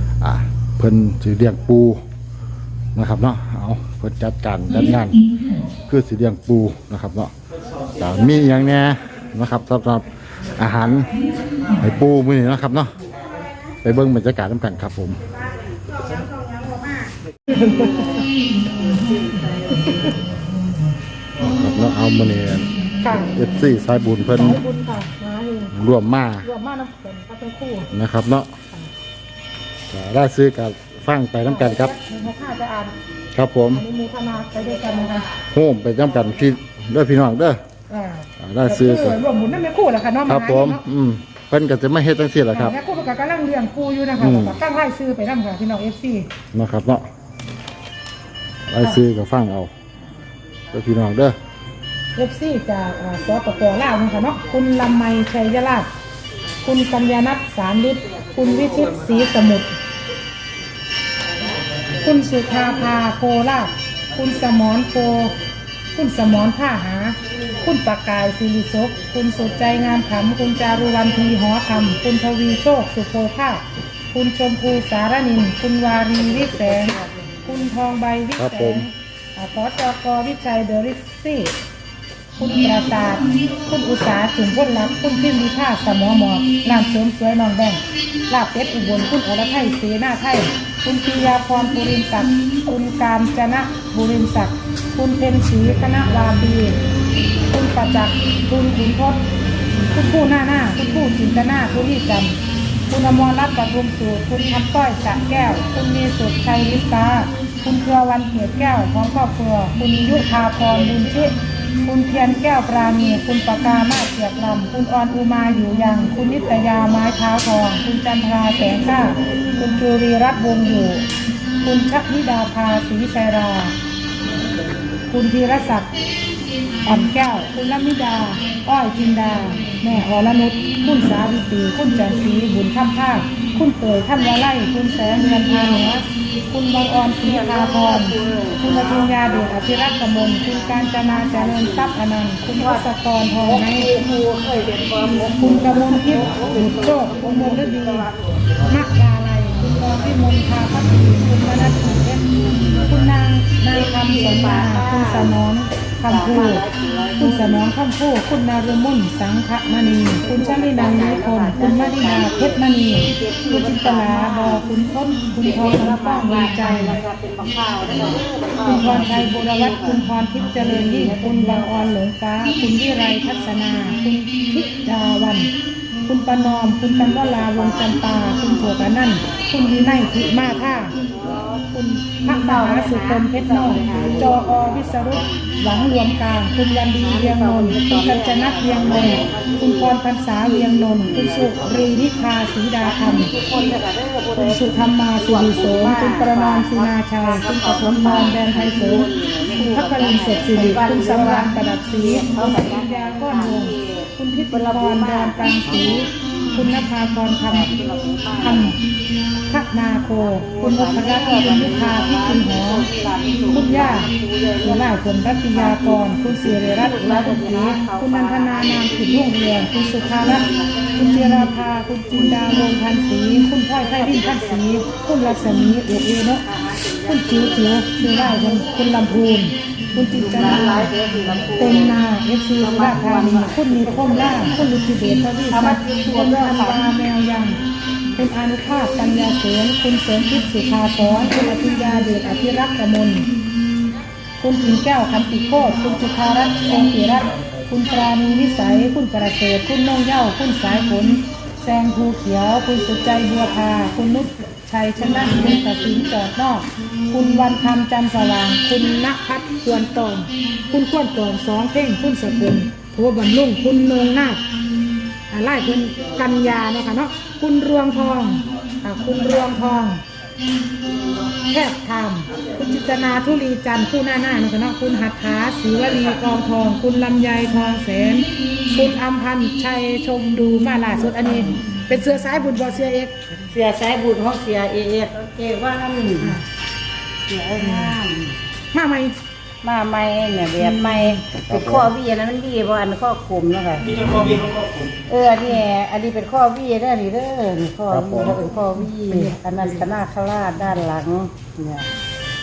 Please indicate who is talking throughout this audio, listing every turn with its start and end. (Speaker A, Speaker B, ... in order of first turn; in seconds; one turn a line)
Speaker A: 0.2-2.0
Speaker A: 3.0-5.3
Speaker A: 5.8-7.3
Speaker A: 8.0-11.1
Speaker A: 11.8-12.9
Speaker A: 13.8-15.2
Speaker B: 16.0-17.1
Speaker C: 17.5-18.1
Speaker B: 18.8-19.8
Speaker C: 19.7-20.1
Speaker A: 21.4-24.6
Speaker C: 23.0-23.3
Speaker C: 24.3-25.8
Speaker A: 25.7-26.5
Speaker C: 26.4-27.9
Speaker A: 27.9-28.5
Speaker A: 29.9-31.9
Speaker C: 31.4-33.0
Speaker A: 33.4-33.8
Speaker C: 33.7-35.3
Speaker A: 35.4-37.6
Speaker C: 37.9-40.8
Speaker A: 38.4-39.2
Speaker A: 40.2-42.8
Speaker C: 42.5-46.3
Speaker A: 44.2-44.6
Speaker A: 46.5-47.1
Speaker A: 48.7-49.7
Speaker A: 50.7-51.4
Speaker C: 52.2-55.9
Speaker C: 56.6-59.8
Speaker C: 62.0-65.3
Speaker C: 65.9-81.5
Speaker B: 76.6-77.3
Speaker A: 78.4-78.9
Speaker C: 82.4-96.8
Speaker C: 97.5-99.2
Speaker C: 99.9-121.0
Speaker C: 121.6-123.7
Speaker C: 125.1-125.9
Speaker C: 126.8-143.9
Speaker B: 137.2-141.9
Speaker B: 142.6-142.8
Speaker B: 143.4-148.6
Speaker C: 145.3-148.1
Speaker C: 148.7-152.2
Speaker B: 152.3-152.9
Speaker C: 152.8-156.7
Speaker B: 153.7-155.3
Speaker B: 156.1-157.7
Speaker C: 157.2-167.0
Speaker B: 160.2-164.7
Speaker B: 165.4-171.9
Speaker C: 168.6-175.5
Speaker C: 176.1-181.0
Speaker B: 177.0-178.7
Speaker B: 180.2-181.6
Speaker C: 181.5-193.3
Speaker B: 182.3-185.6
Speaker B: 187.0-191.9
Speaker B: 192.8-206.7
Speaker C: 194.4-207.8
Speaker B: 207.5-208.8
Speaker C: 208.3-208.8
Speaker C: 209.5-212.9
Speaker B: 210.2-214.9
Speaker C: 213.5-226.5
Speaker B: 215.5-222.8
Speaker B: 223.8-229.1
Speaker C: 227.0-230.9
Speaker B: 230.2-232.0
Speaker C: 231.5-237.6
Speaker B: 232.6-234.7
Speaker B: 235.5-236.9
Speaker C: 238.2-243.3
Speaker C: 244.4-264.4
Speaker D: 245.8-248.0
Speaker C: 265.3-270.0
Speaker C: 271.5-283.3
Speaker B: 283.5-286.4
Speaker B: 287.3-288.4
Speaker C: 287.6-287.9
Speaker C: 288.7-289.2
Speaker B: 289.6-293.9
Speaker C: 290.6-291.1
Speaker A: 291.4-291.9
Speaker D: 293.8-295.0
Speaker B: 295.1-301.9
Speaker A: 297.9-298.4
Speaker C: 299.1-299.9